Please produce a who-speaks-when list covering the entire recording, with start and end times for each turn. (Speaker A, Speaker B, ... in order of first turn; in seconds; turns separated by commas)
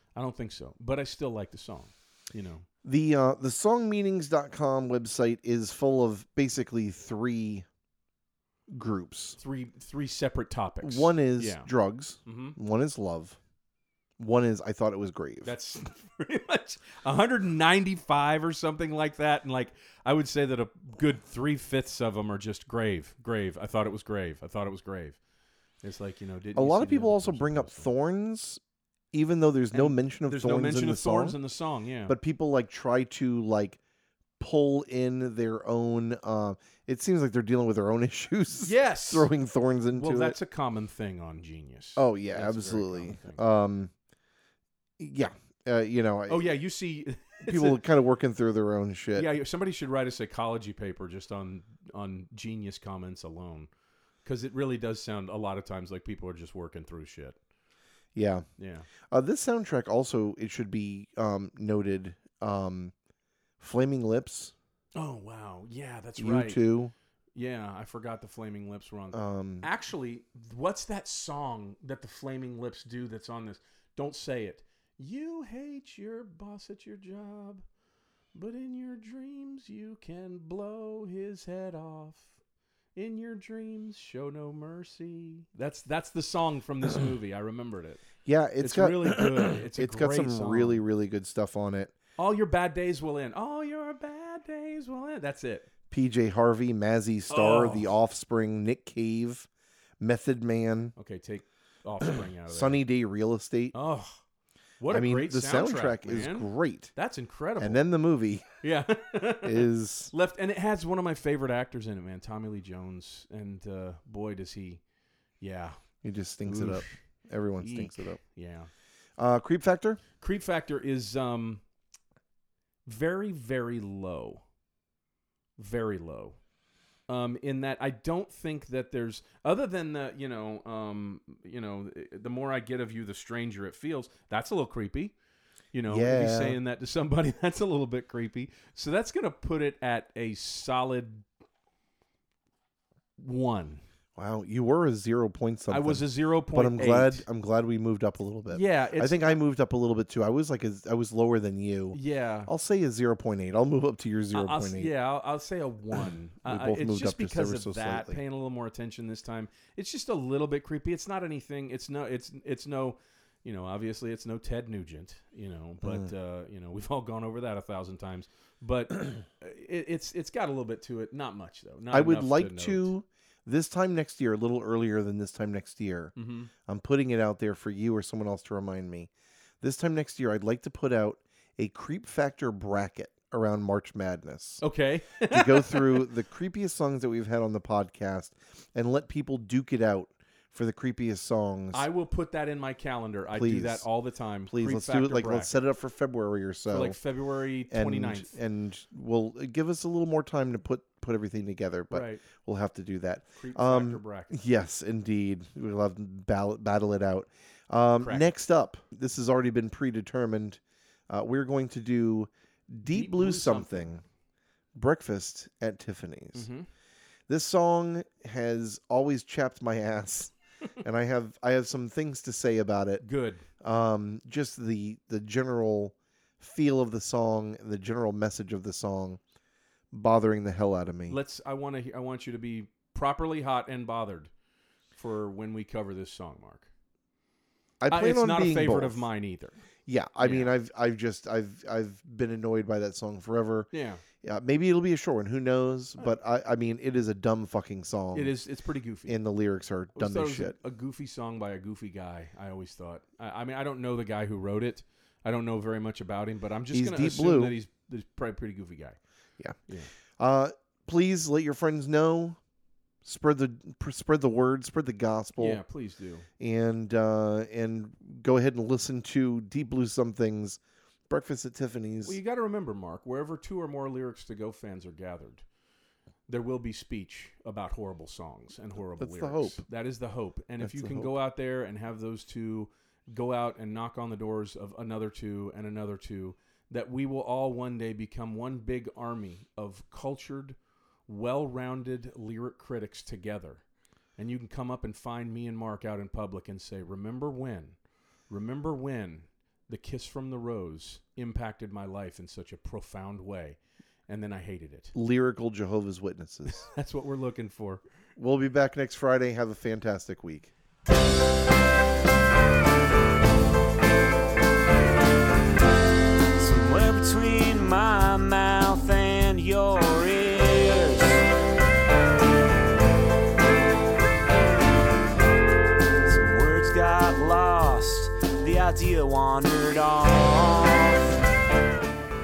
Speaker A: 0.1-2.7, Speaker B: 2.8-7.7, Speaker B: 8.7-9.4, Speaker A: 9.4-11.7, Speaker B: 10.8-13.4, Speaker A: 12.2-12.6, Speaker B: 14.2-15.5, Speaker A: 15.4-25.2, Speaker A: 25.8-27.9, Speaker B: 26.6-28.6, Speaker B: 29.1-31.4, Speaker A: 29.7-32.2, Speaker B: 32.1-33.8, Speaker B: 34.4-40.4, Speaker A: 38.6-39.3, Speaker A: 39.9-43.4, Speaker B: 42.0-43.9, Speaker B: 45.0-46.5, Speaker A: 46.3-47.8, Speaker B: 47.5-49.3, Speaker A: 49.1-53.7, Speaker A: 54.2-57.4, Speaker B: 58.1-58.5, Speaker A: 58.6-58.9, Speaker B: 59.1-62.9, Speaker B: 63.6-64.5, Speaker A: 65.0-66.6, Speaker B: 66.2-66.9, Speaker A: 67.3-77.6, Speaker B: 69.1-69.7, Speaker A: 78.3-82.4, Speaker A: 83.0-88.0, Speaker B: 88.2-91.9, Speaker A: 88.6-90.8, Speaker A: 92.2-95.7, Speaker B: 95.9-99.5, Speaker A: 97.3-97.9, Speaker B: 100.0-100.9, Speaker A: 101.0-102.8, Speaker B: 102.0-103.7, Speaker A: 103.7-104.2, Speaker A: 104.8-107.8, Speaker B: 104.9-106.9, Speaker B: 107.6-108.5, Speaker A: 108.6-114.8, Speaker B: 109.4-110.1, Speaker A: 115.4-115.8, Speaker B: 116.0-118.2, Speaker A: 116.5-117.0, Speaker A: 117.6-118.7, Speaker B: 119.2-120.0, Speaker A: 120.2-121.6, Speaker A: 122.9-124.4, Speaker A: 125.6-126.4, Speaker A: 127.1-135.1, Speaker A: 135.7-141.3, Speaker B: 135.9-136.6, Speaker A: 143.2-143.8, Speaker B: 144.2-154.9, Speaker A: 145.7-147.3, Speaker A: 148.5-149.4, Speaker A: 151.9-152.5, Speaker A: 154.3-172.9, Speaker B: 156.4-158.2, Speaker B: 165.8-166.1, Speaker B: 171.9-176.1, Speaker A: 176.2-176.5, Speaker B: 176.7-179.1, Speaker B: 179.6-184.6, Speaker A: 184.6-186.1, Speaker B: 185.3-191.8, Speaker A: 191.7-195.6, Speaker B: 193.3-193.9, Speaker B: 194.5-197.0, Speaker A: 196.7-198.3, Speaker B: 197.7-214.0, Speaker A: 201.9-202.2, Speaker A: 203.4-204.4, Speaker A: 208.0-208.3, Speaker A: 212.9-213.9, Speaker B: 214.8-216.5, Speaker A: 216.3-216.7, Speaker B: 217.3-223.0, Speaker A: 223.0-223.4, Speaker B: 223.6-229.2, Speaker B: 229.9-231.2, Speaker A: 231.1-234.3, Speaker A: 235.0-236.7, Speaker B: 237.8-239.1, Speaker A: 237.9-239.6, Speaker B: 239.9-243.7, Speaker A: 240.2-240.5, Speaker A: 243.7-244.0, Speaker B: 244.2-248.3, Speaker A: 248.1-249.2, Speaker B: 249.1-250.6, Speaker A: 249.9-259.0, Speaker B: 256.7-257.5, Speaker B: 260.2-262.4, Speaker B: 263.0-265.6, Speaker A: 265.4-266.3, Speaker B: 266.4-272.2, Speaker A: 272.0-275.4, Speaker A: 276.3-290.6, Speaker B: 279.0-279.6, Speaker B: 280.6-281.1, Speaker A: 291.1-293.6, Speaker A: 294.2-297.8, Speaker A: 298.3-304.9, Speaker B: 304.9-306.7, Speaker A: 306.5-307.8, Speaker B: 308.2-310.5, Speaker C: 316.4-321.2, Speaker C: 326.1-331.1